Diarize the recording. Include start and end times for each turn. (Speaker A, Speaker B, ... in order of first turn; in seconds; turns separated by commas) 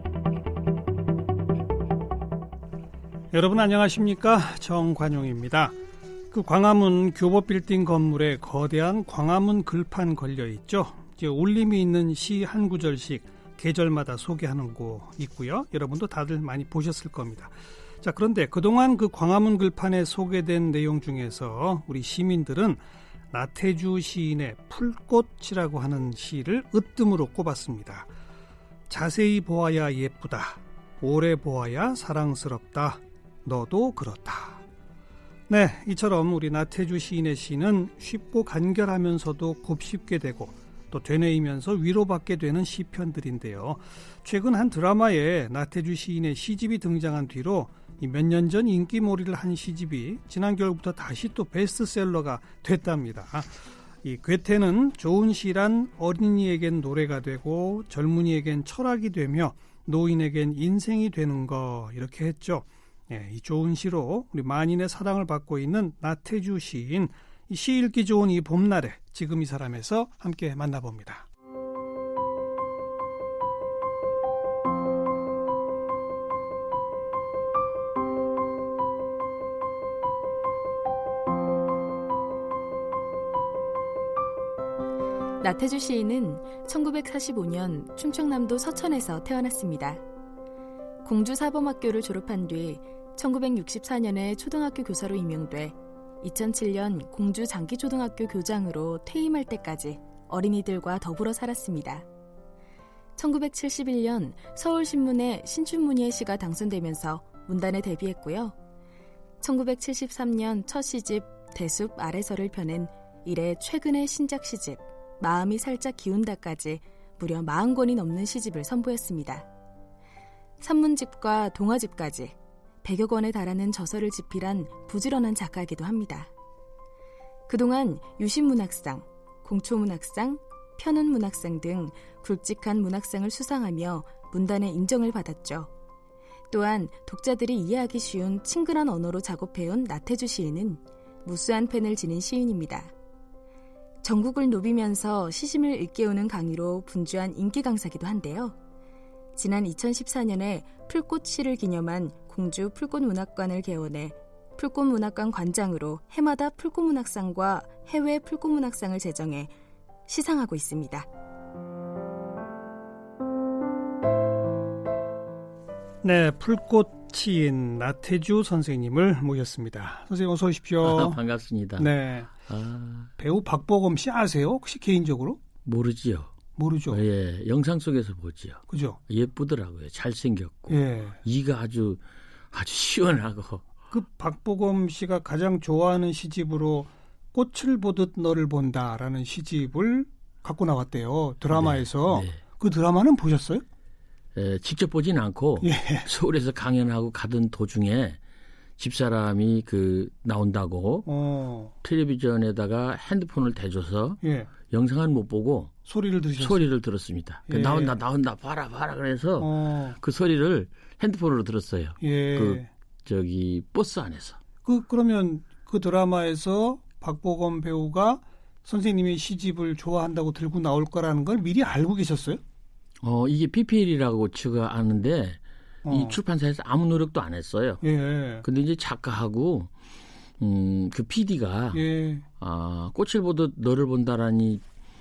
Speaker A: 3.3-5.8, Speaker A: 6.3-22.8, Speaker A: 23.3-28.1, Speaker A: 28.9-34.6, Speaker A: 35.5-71.3, Speaker B: 85.4-90.0, Speaker B: 91.0-102.1, Speaker B: 103.2-108.6, Speaker B: 109.4-119.5, Speaker B: 120.6-126.3, Speaker B: 127.5-135.7, Speaker B: 136.5-142.9, Speaker B: 144.0-148.6, Speaker B: 149.4-159.5, Speaker B: 160.1-161.1, Speaker A: 166.0-171.2, Speaker C: 170.8-171.9, Speaker A: 171.8-172.3, Speaker C: 172.5-173.1, Speaker A: 173.2-175.4, Speaker C: 175.7-176.3, Speaker A: 176.6-177.0, Speaker C: 176.9-183.7, Speaker A: 178.7-179.0, Speaker A: 180.7-181.2, Speaker A: 183.9-193.6, Speaker C: 191.5-192.4, Speaker C: 194.3-198.2, Speaker A: 195.6-196.1, Speaker C: 198.8-201.1, Speaker A: 201.1-201.7, Speaker C: 201.8-205.7, Speaker A: 204.2-204.5, Speaker A: 205.9-206.6, Speaker C: 206.4-214.4, Speaker A: 207.5-208.0, Speaker A: 209.4-210.0, Speaker A: 212.0-212.7, Speaker A: 214.7-222.4, Speaker C: 223.0-227.8, Speaker A: 225.8-226.2, Speaker A: 227.8-228.4, Speaker C: 228.4-229.7, Speaker C: 230.4-231.8, Speaker A: 231.7-232.3, Speaker C: 232.4-234.6